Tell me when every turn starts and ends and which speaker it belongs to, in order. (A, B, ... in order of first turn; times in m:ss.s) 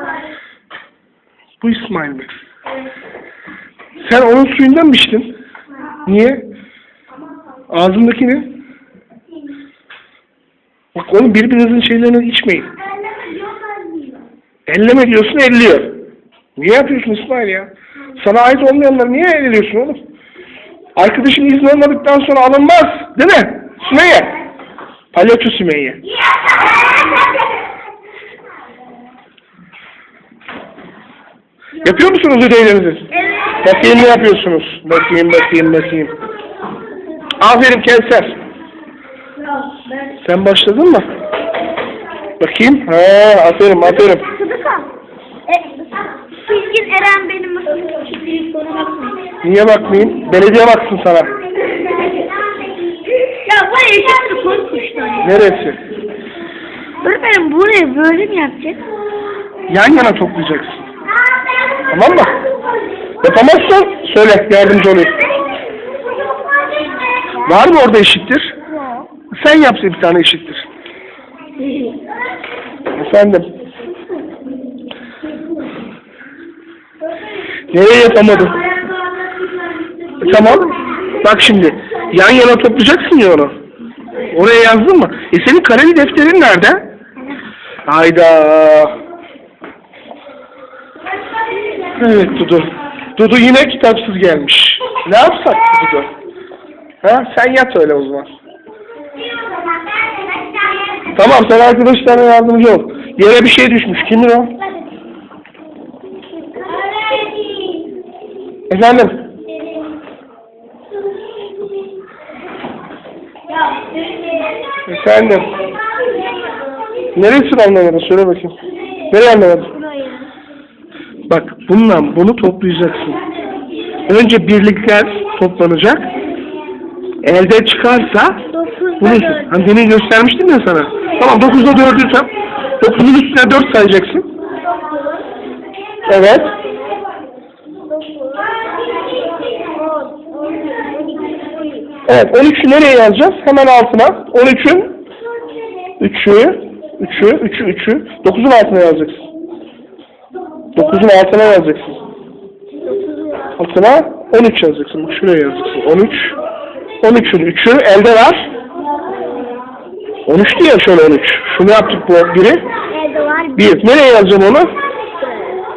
0:01.6-0:02.3 A
0:04.0-0:05.3 A
0:06.0-0:06.4 A
0:07.7-0:08.5 A
0:10.9-0:12.7 A
0:13.2-0:14.2 B
0:14.7-0:16.0 A
0:16.6-0:20.0 A
0:21.0-0:24.4 A
0:25.1-0:26.0 A
0:26.8-0:27.4 B
0:31.8-0:36.1 A
0:33.3-0:33.6 B
0:37.4-0:38.4 A
0:40.2-0:41.1 A
0:42.4-0:44.3 A
0:44.1-0:44.9 B
0:45.5-0:49.2 B
0:49.4-0:51.3 A
0:53.3-0:55.3 B
0:55.2-0:55.8 A
0:57.0-0:58.9 B
0:59.7-1:00.9 A
1:01.7-1:01.9 B
1:01.9-1:02.4 A
1:03.2-1:05.2 A
1:06.3-1:07.3 B
1:07.4-1:08.6 A
1:08.8-1:09.0 B
1:09.3-1:10.6 A
1:11.6-1:12.0 B
1:12.9-1:13.5 A
1:17.7-1:18.6 A
1:19.4-1:21.1 B
1:20.2-1:23.5 A
1:24.3-1:26.9 A
1:27.8-1:29.0 A
1:31.9-1:36.1 A
1:37.0-1:38.3 A
1:39.2-1:41.1 B
1:41.1-1:44.6 A
1:46.4-1:47.9 B
1:48.7-1:49.3 A
1:53.5-1:54.5 B
1:54.8-1:55.5 A
1:57.1-1:58.6 A
1:59.1-1:59.7 A
1:59.8-2:00.3 B
2:01.3-2:03.2 A
2:04.0-2:06.1 A
2:07.2-2:08.5 A
2:08.5-2:09.5 B
2:09.0-2:14.3 A
2:14.6-2:15.2 B
2:16.0-2:16.6 A
2:17.9-2:22.0 B
2:22.0-2:25.0 A
2:26.0-2:29.2 A
2:30.7-2:32.0 A
2:32.8-2:33.6 B
2:33.6-2:36.4 A
2:37.0-2:38.5 A
2:40.3-2:42.7 A
2:42.9-2:43.7 B
2:43.6-2:44.7 A
2:45.2-2:45.6 B